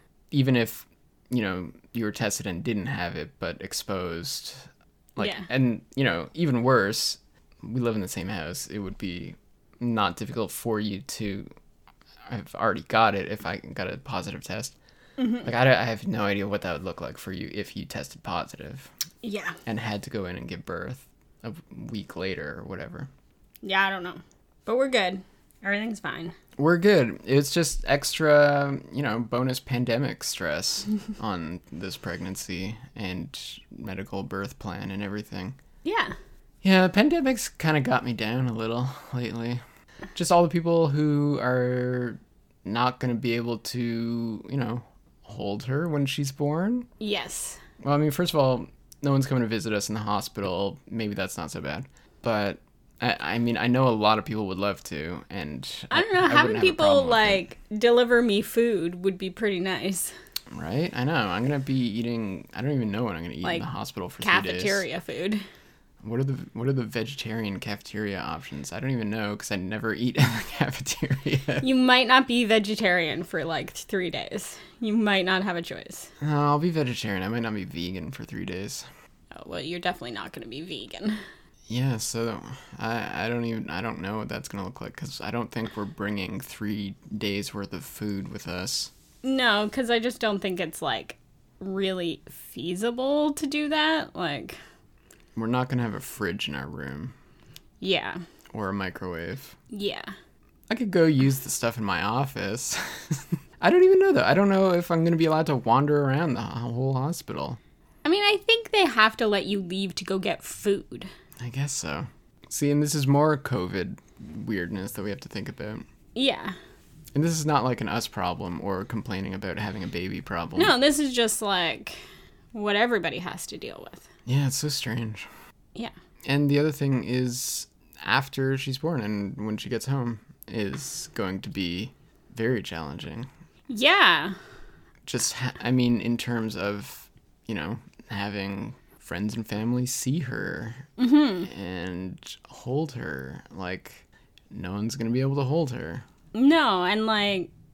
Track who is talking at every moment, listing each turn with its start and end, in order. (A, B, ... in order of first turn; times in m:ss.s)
0:00.3-0:11.5 A
0:05.2-0:05.5 B
0:12.3-0:14.8 A
0:15.2-0:15.5 B
0:15.4-0:18.9 A
0:19.2-0:19.6 B
0:19.7-0:23.1 A
0:23.6-0:26.4 B
0:26.6-0:35.6 A
0:35.8-0:36.2 B
0:36.6-0:39.6 A
0:40.1-0:46.9 A
0:47.0-0:47.6 B
0:47.8-0:57.4 A
0:55.9-1:00.1 B
1:00.5-1:04.8 A
1:04.2-1:05.4 B
1:06.0-1:11.7 A
1:11.6-1:16.1 B
1:16.2-1:18.9 A
1:19.3-1:21.2 B
1:21.7-1:28.9 A
1:29.2-1:34.6 B
1:35.4-1:37.1 A
1:37.8-1:38.2 B
1:38.5-1:39.6 A
1:39.7-1:40.1 B
1:40.7-1:47.6 A
1:48.0-1:51.1 B
1:51.4-1:55.8 A
1:56.2-1:56.6 B
1:57.2-2:00.7 A
2:00.6-2:02.0 B
2:02.5-2:04.1 B
2:04.3-2:05.3 A
2:06.2-2:13.3 A
2:13.7-2:14.4 B
2:15.1-2:20.9 A
2:21.0-2:21.5 B
2:21.4-2:26.0 A
2:26.3-2:27.5 B